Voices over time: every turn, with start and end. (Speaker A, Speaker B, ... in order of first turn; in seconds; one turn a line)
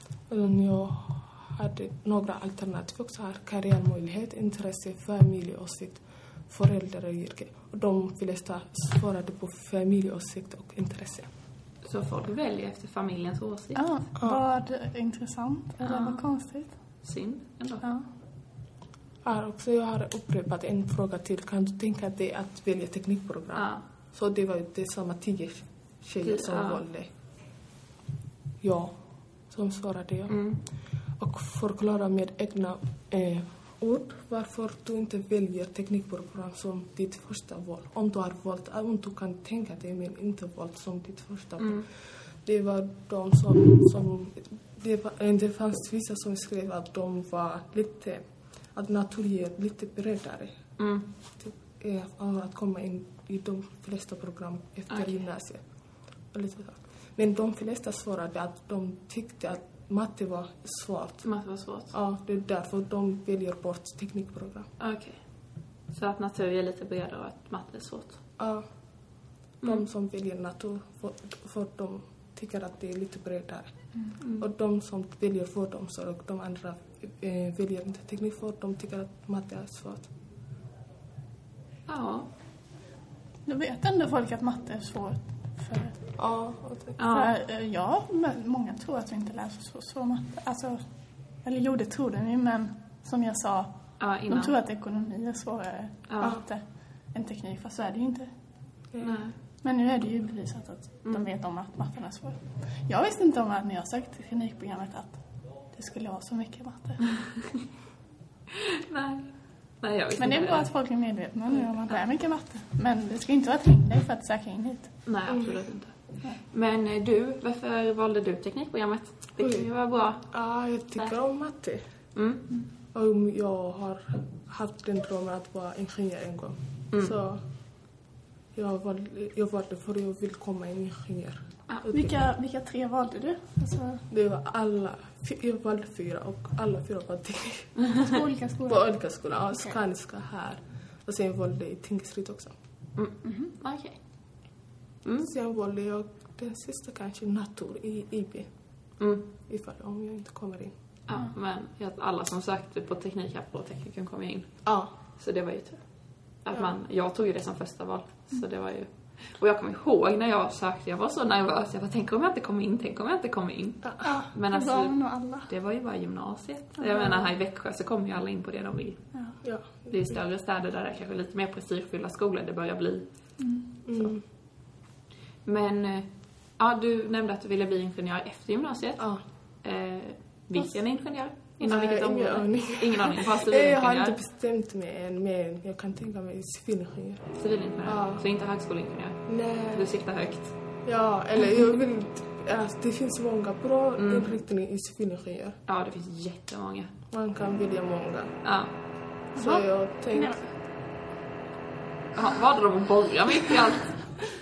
Speaker A: 0.3-11.3
Speaker B: 11.8-13.8
Speaker C: 13.8-16.7
Speaker B: 15.8-16.2
Speaker B: 17.0-17.8
Speaker A: 19.2-27.1
Speaker B: 23.6-23.8
Speaker B: 26.2-26.8
Speaker A: 28.6-30.4
Speaker B: 30.3-30.6
Speaker A: 31.2-48.2
Speaker A: 48.8-50.6
Speaker B: 50.8-51.1
Speaker A: 51.4-55.6
Speaker A: 56.3-61.2
Speaker B: 61.2-61.9
Speaker A: 61.9-64.7
Speaker B: 64.8-65.2
Speaker B: 65.9-68.2
Speaker A: 68.4-68.6
Speaker A: 69.6-73.7
Speaker B: 74.2-74.5
Speaker A: 74.4-80.1
Speaker B: 81.9-82.3
Speaker C: 83.5-86.1
Speaker A: 86.2-87.0
Speaker B: 87.0-87.4
Speaker C: 87.1-90.8
Speaker C: 91.4-93.7
Speaker B: 94.0-94.6
Speaker C: 94.3-96.6
Speaker B: 96.1-96.4
Speaker C: 97.1-98.3
Speaker A: 98.9-99.2
Speaker B: 99.0-99.3
Speaker C: 99.6-105.2
Speaker C: 105.7-107.1
Speaker B: 108.5-110.7
Speaker C: 110.2-114.9
Speaker B: 115.1-115.9
Speaker A: 115.3-115.6
Speaker B: 116.5-120.3
Speaker A: 119.4-119.7
Speaker A: 120.3-121.8
Speaker B: 122.2-122.5
Speaker A: 122.9-127.4
Speaker A: 128.6-132.2
Speaker C: 131.9-134.0
Speaker A: 134.1-137.8
Speaker C: 138.0-138.9
Speaker A: 138.7-142.6
Speaker B: 143.0-144.0
Speaker C: 143.2-143.6
Speaker A: 145.2-148.5
Speaker B: 149.0-149.3
Speaker A: 149.5-150.8
Speaker B: 151.1-154.6
Speaker A: 154.7-154.9
Speaker B: 155.2-155.8
Speaker B: 156.4-169.0
Speaker C: 164.0-165.5
Speaker A: 169.4-170.2
Speaker B: 169.9-173.1
Speaker C: 173.4-173.7
Speaker A: 173.9-174.2
Speaker B: 175.4-179.1
Speaker B: 179.6-184.2
Speaker A: 181.7-187.3
Speaker B: 187.4-190.5
Speaker A: 187.8-188.2
Speaker A: 189.3-189.9
Speaker A: 190.8-195.6
Speaker B: 194.0-194.3
Speaker B: 195.7-196.9
Speaker A: 197.1-198.3
Speaker B: 198.4-198.7
Speaker C: 199.3-200.4
Speaker A: 199.4-200.4
Speaker B: 202.2-204.1